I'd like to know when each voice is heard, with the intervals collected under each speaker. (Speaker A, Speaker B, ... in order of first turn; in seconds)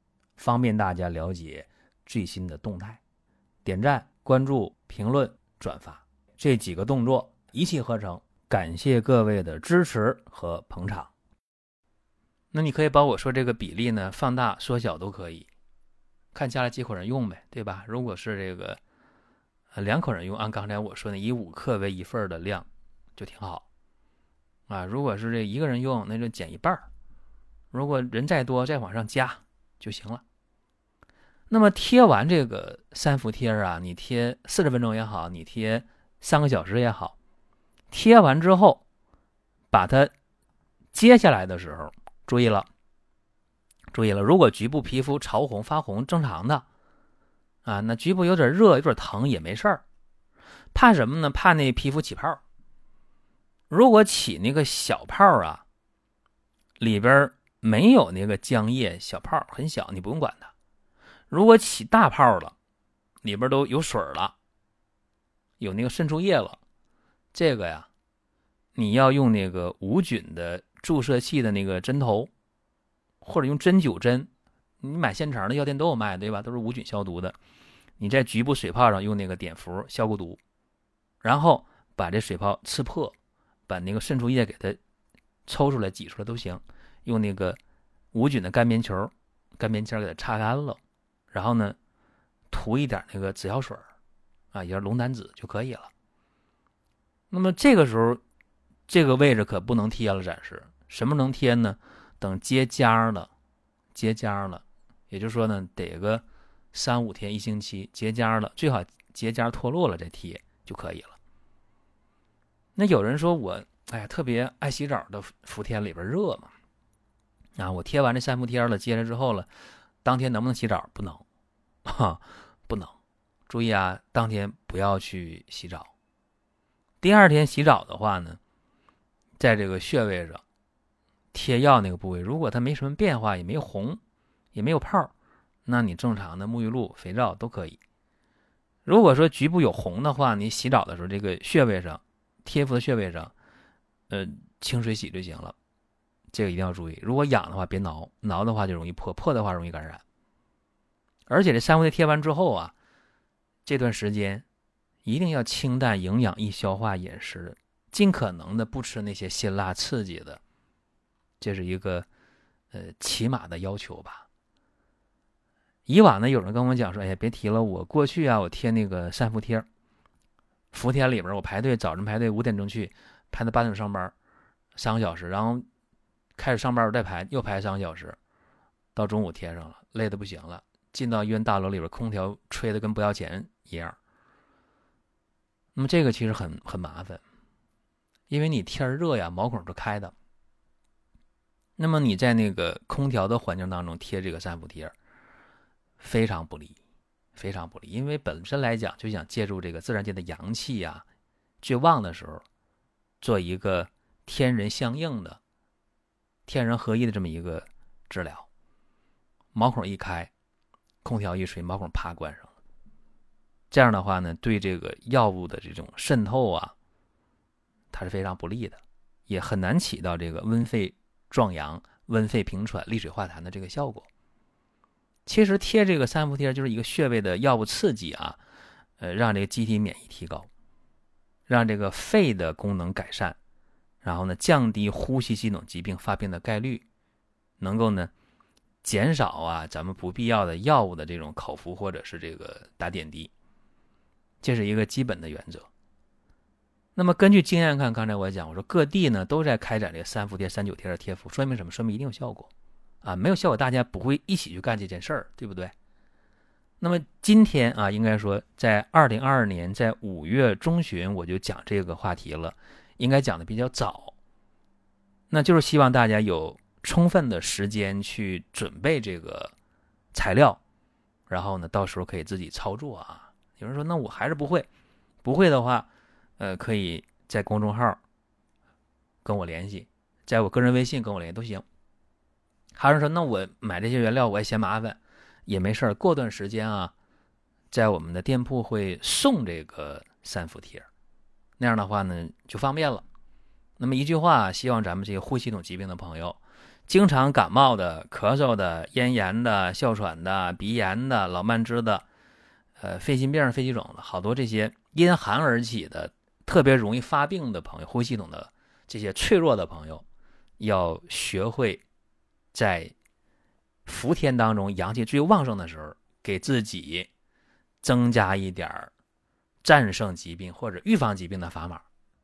Speaker A: 0.4-3.0, 3.6-11.1, 12.5-15.5, 16.3-18.8, 19.7-23.6, 24.7-26.9, 27.7-30.2, 31.5-37.2, 37.9-38.8, 39.7-40.1, 40.9-42.7, 43.9-46.6, 47.6-49.8, 50.7-52.4, 53.7-55.6, 56.8-60.5, 61.3-62.5, 63.2-64.4, 65.6-66.6, 67.3-67.9, 68.8-72.3, 73.2-74.3, 74.8-77.4, 78.0-80.4, 81.2-83.2, 83.7-84.8, 85.5-87.6, 88.1-90.8, 91.3-91.8, 92.5-93.8, 94.5-95.9, 97.3-98.2, 98.9-103.3, 104.0-111.2, 112.8-116.5, 117.6-119.5, 120.0-121.2, 121.8-122.9, 123.5-125.9, 127.0-128.4, 129.4-130.4, 131.3-134.0, 134.5-135.1, 135.7-137.8, 138.8-143.3, 144.1-145.6, 146.3-150.0, 151.3-152.8, 153.7-154.4, 155.1-160.4, 161.4-162.1, 162.7-164.3, 165.9-169.7, 170.7-174.1, 174.8-175.7, 176.4-178.2, 178.9-184.0, 185.8-187.2, 188.3-190.1, 191.8-194.9, 196.0-196.8, 197.3-201.1, 201.6-202.4, 203.2-205.4, 206.5-208.5, 209.5-210.3, 211.0-212.5, 213.7-216.8, 217.9-224.1, 225.3-228.4, 229.0-230.5, 231.5-233.4, 234.0-236.8, 237.6-238.1, 238.8-243.3, 244.4-245.7, 247.0-252.5, 253.0-255.7, 256.8-264.1, 265.3-269.5, 270.1-270.6, 271.3-274.7, 275.2-278.0, 279.2-281.6, 282.8-286.9, 287.7-290.9, 291.6-293.0, 293.8-302.1, 302.8-310.1, 310.6-311.8, 312.5-312.9, 313.9-317.1, 317.8-318.9, 319.6-321.8